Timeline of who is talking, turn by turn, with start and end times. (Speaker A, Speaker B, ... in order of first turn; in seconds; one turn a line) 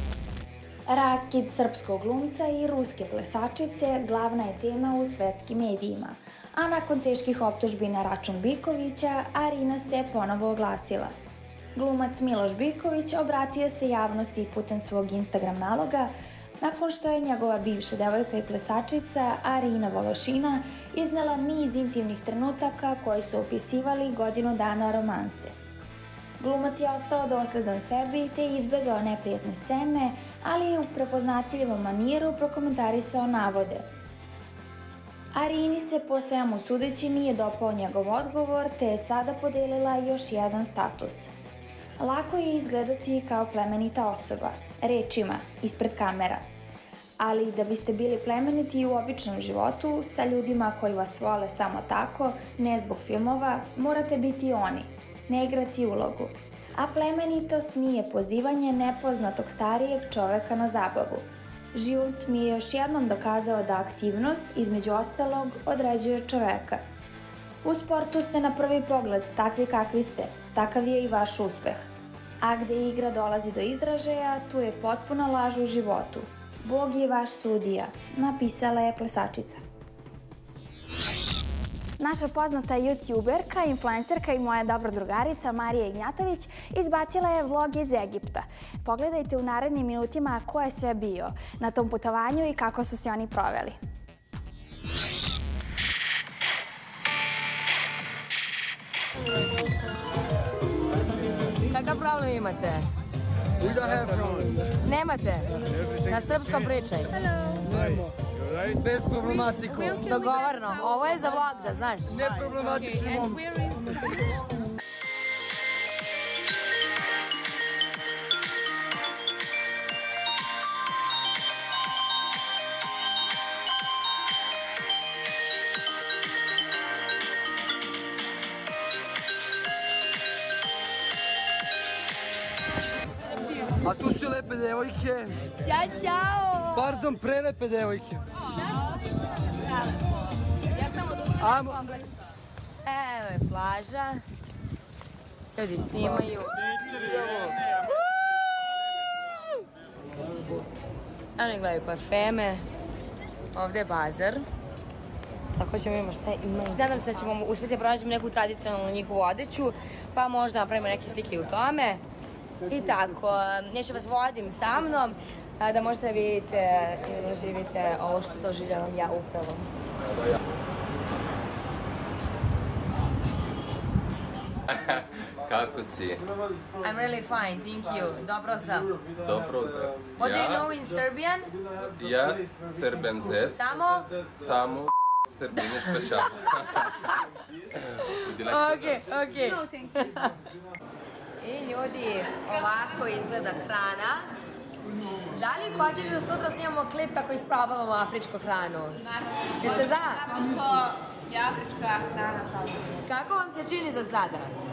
Speaker A: 0.9-11.1
Speaker A: 11.8-25.5
Speaker A: 26.4-33.9
Speaker A: 35.3-41.3
Speaker A: 42.0-46.4
Speaker A: 47.2-66.8
Speaker A: 67.6-71.9
Speaker A: 72.4-79.6
Speaker A: 82.0-93.8
Speaker B: 101.7-102.9
Speaker C: 103.7-104.4
Speaker B: 104.8-105.5
Speaker B: 106.0-107.1
Speaker C: 108.8-109.8
Speaker B: 109.9-112.3
Speaker C: 112.3-113.3
Speaker C: 133.9-135.3
Speaker B: 135.6-137.0
Speaker C: 137.3-138.2
Speaker B: 139.7-140.2
Speaker B: 140.7-142.1
Speaker B: 142.8-144.2
Speaker B: 145.6-146.6
Speaker B: 151.4-152.6
Speaker B: 153.5-154.4
Speaker B: 155.6-162.0
Speaker B: 162.7-169.7
Speaker D: 174.7-176.2
Speaker B: 176.8-178.9
Speaker D: 179.2-180.6
Speaker B: 180.2-181.5
Speaker D: 181.8-183.6
Speaker B: 183.5-184.1
Speaker D: 184.4-186.8
Speaker B: 185.6-186.2
Speaker B: 188.0-190.3
Speaker D: 188.2-189.0
Speaker B: 191.4-194.3
Speaker B: 195.3-200.5
Speaker B: 203.0-204.5